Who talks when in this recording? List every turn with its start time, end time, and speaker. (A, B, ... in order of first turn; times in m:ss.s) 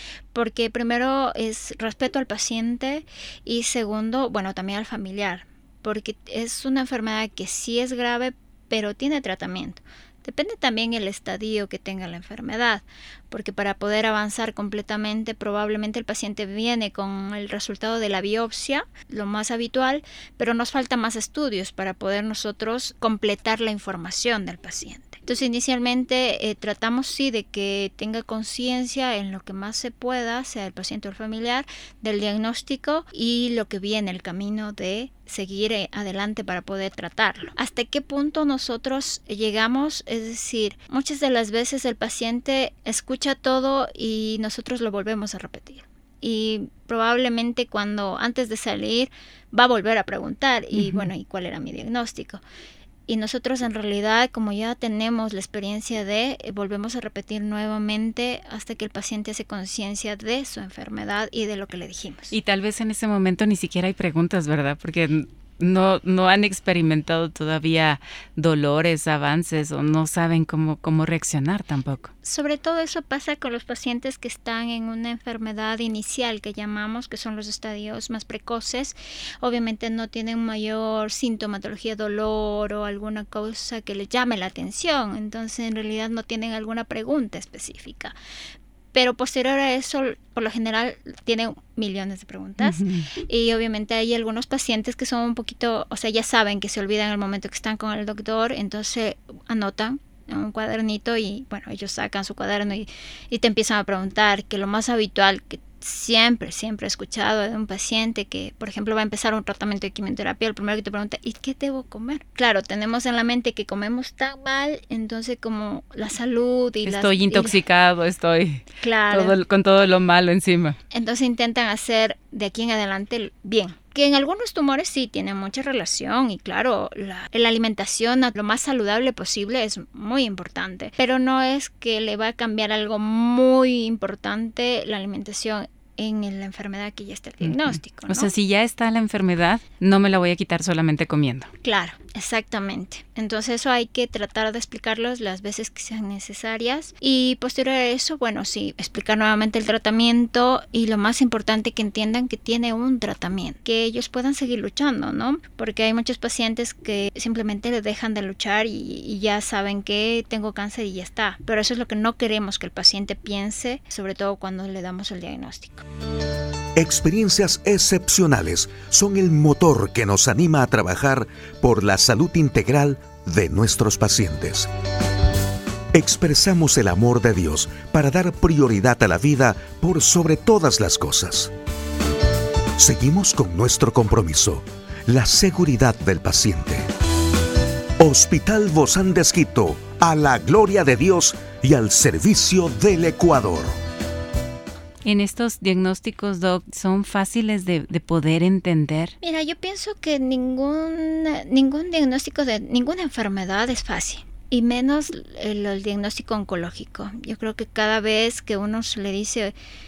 0:00.3-0:52.4 A
0:50.7-0:51.1 B
0:53.1-1:02.3 A
1:02.3-1:12.1 B
1:12.2-1:28.1 A
1:28.9-1:57.6 A
1:32.6-1:33.1 B
1:56.8-2:00.8 B
1:58.8-1:59.4 A
2:00.9-2:18.3 A
2:17.4-2:21.5 B
2:21.6-2:45.8 A
2:46.8-2:54.7 C
2:55.9-3:01.5 C
3:02.8-3:06.8 C
3:08.0-3:13.7 C
3:15.0-3:19.1 B
3:19.2-3:29.5 A